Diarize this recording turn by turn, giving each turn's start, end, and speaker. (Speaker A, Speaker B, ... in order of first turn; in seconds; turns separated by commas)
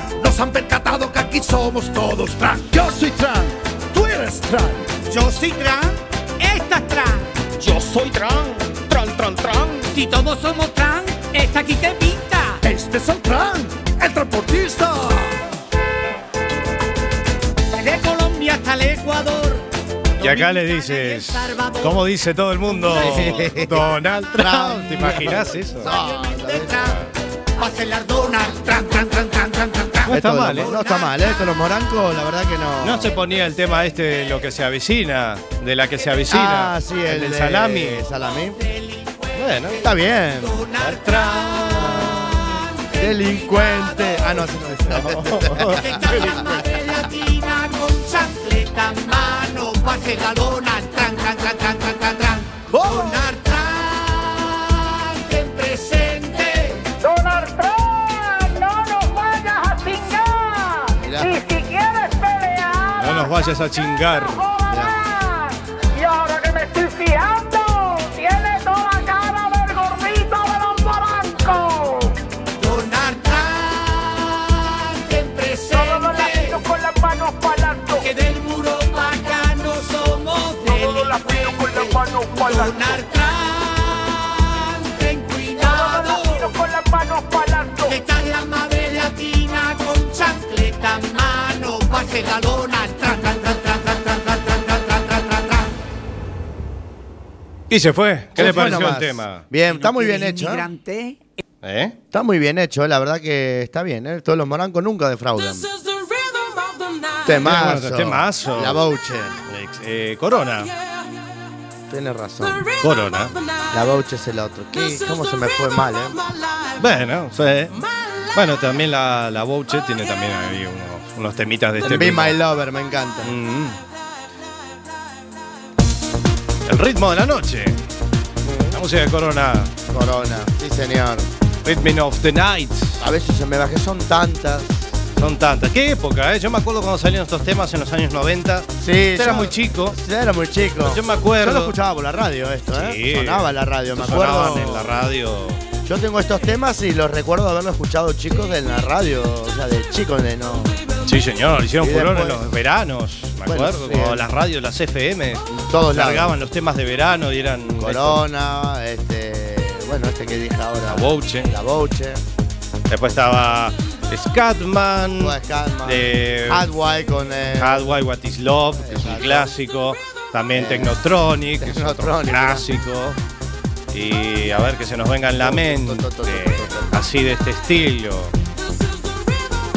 Speaker A: 0.2-4.9, Speaker B: 5.0-7.3, Speaker A: 7.7-8.8, Speaker A: 9.4-9.8, Speaker B: 9.9-12.6, Speaker A: 12.6-15.4, Speaker B: 17.8-19.7, Speaker B: 20.2-22.0, Speaker C: 20.2-25.9, Speaker B: 22.7-23.2, Speaker D: 22.9-27.0, Speaker B: 25.8-27.0, Speaker B: 27.6-31.2, Speaker C: 30.1-30.7, Speaker D: 30.1-33.1, Speaker C: 32.8-38.1, Speaker D: 36.3-38.6, Speaker B: 38.5-44.5, Speaker C: 39.4-39.8, Speaker D: 39.8-40.6, Speaker C: 40.8-42.5, Speaker D: 41.7-42.4, Speaker D: 43.0-46.0, Speaker C: 44.8-46.7, Speaker B: 45.6-56.9, Speaker D: 52.7-53.3, Speaker E: 57.0-63.3, Speaker D: 61.0-61.3, Speaker C: 63.0-64.5, Speaker E: 64.3-72.2, Speaker D: 64.7-64.9, Speaker B: 72.6-76.6, Speaker E: 75.7-78.1, Speaker B: 78.0-86.5, Speaker E: 80.7-82.9, Speaker E: 85.6-88.0, Speaker B: 87.9-95.7, Speaker C: 97.7-99.5, Speaker D: 98.4-100.7, Speaker C: 101.6-102.0, Speaker D: 102.1-105.7, Speaker D: 107.2-109.4, Speaker C: 107.4-108.8, Speaker C: 109.5-110.7, Speaker D: 111.9-112.7, Speaker C: 112.8-113.3, Speaker D: 113.7-116.2, Speaker C: 116.8-117.8, Speaker C: 118.3-122.4, Speaker D: 121.8-123.3, Speaker C: 123.2-123.8, Speaker C: 126.7-127.8, Speaker D: 128.4-128.8, Speaker C: 128.7-129.7, Speaker D: 129.9-131.3, Speaker C: 131.7-133.0, Speaker D: 133.0-134.9, Speaker C: 135.2-140.0, Speaker D: 138.8-144.9, Speaker C: 140.8-141.8, Speaker C: 142.7-145.6, Speaker D: 145.9-150.8, Speaker C: 151.1-158.2, Speaker D: 151.8-152.4, Speaker D: 153.5-154.3, Speaker D: 155.5-156.3, Speaker D: 157.8-162.2, Speaker C: 160.9-161.5, Speaker C: 162.9-166.7, Speaker D: 165.2-167.9, Speaker C: 167.6-173.2, Speaker D: 168.8-169.5, Speaker D: 170.5-171.0, Speaker D: 171.6-172.7, Speaker C: 173.9-178.3, Speaker D: 175.4-177.0